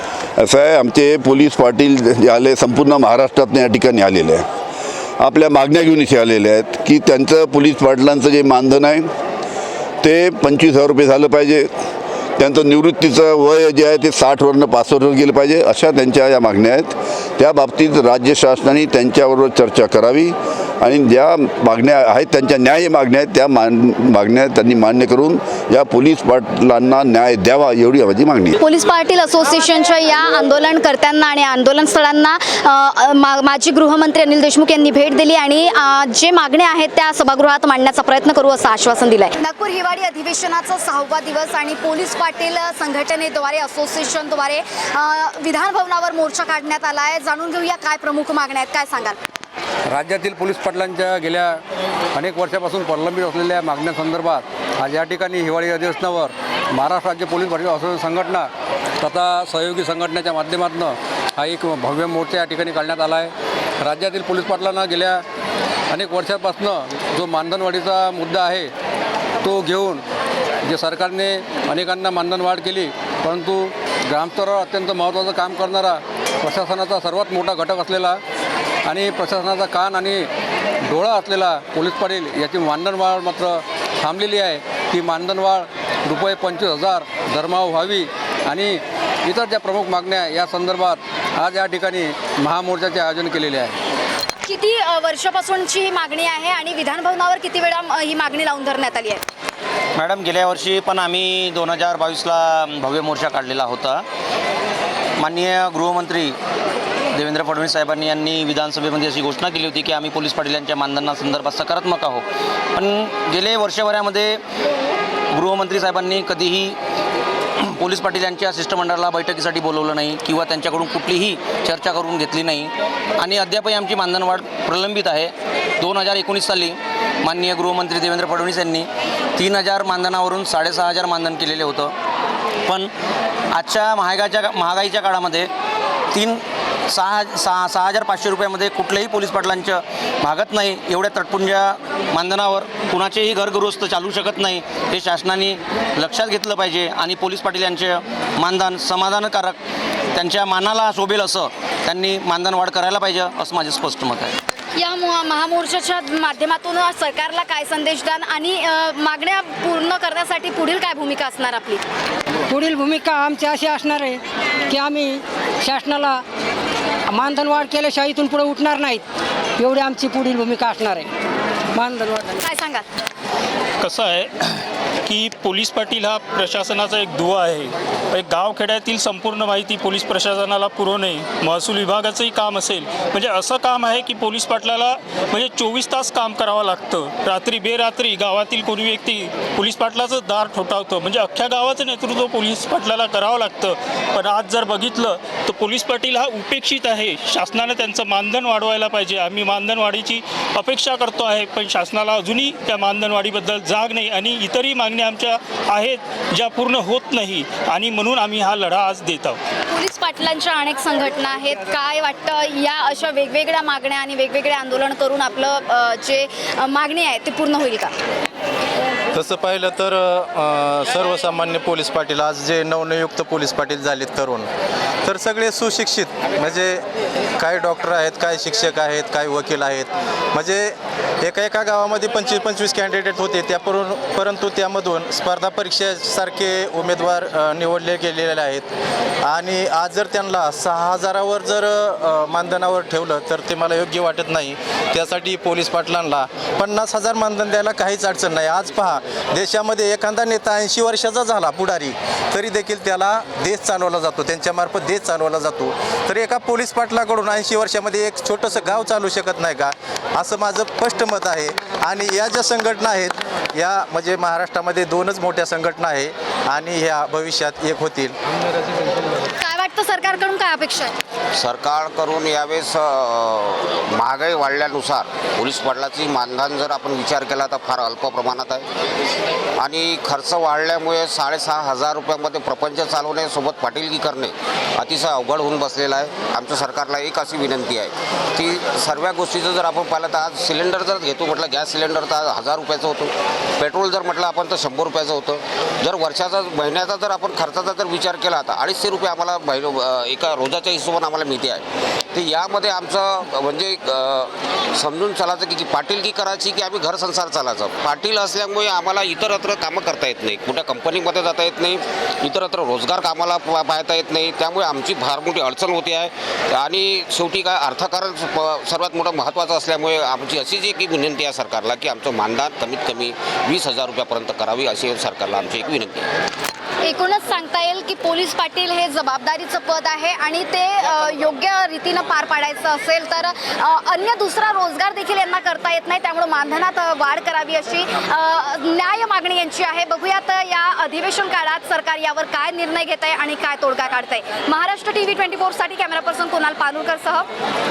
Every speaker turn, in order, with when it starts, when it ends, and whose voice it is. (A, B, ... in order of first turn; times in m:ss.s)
0:00.4-0:04.4 A
0:05.2-0:09.1 A
0:10.0-0:11.7 A
0:12.4-0:28.6 A
0:28.6-0:49.2 B
0:49.9-0:51.6 C
0:52.2-0:58.5 C
0:59.0-1:05.2 C
1:05.9-1:08.7 C
1:09.4-1:10.0 C
1:10.7-1:18.2 C
1:18.9-1:20.3 C
1:20.9-1:33.8 C
1:34.4-1:39.2 B
1:40.0-1:44.0 D
1:45.2-1:46.4 D
1:47.1-1:52.2 D
1:52.8-1:54.4 D
1:55.3-1:56.8 D
1:57.7-2:11.9 D
2:12.6-2:12.9 D
2:13.5-2:15.5 D
2:16.1-2:29.6 D
2:30.1-2:34.4 D
2:34.8-2:41.8 B
2:42.5-2:46.2 E
2:47.1-2:49.0 E
2:49.6-2:51.1 E
2:51.7-2:52.4 E
2:52.4-2:52.9 B
2:53.8-3:29.4 F
3:29.7-3:38.0 B
3:39.1-3:44.5 G
3:45.0-3:46.8 G
3:47.4-3:58.7 G
3:59.2-4:28.2 G
4:29.4-4:31.0 B
4:31.4-4:38.7 H
4:39.6-5:26.1 H
5:26.8-5:47.3 B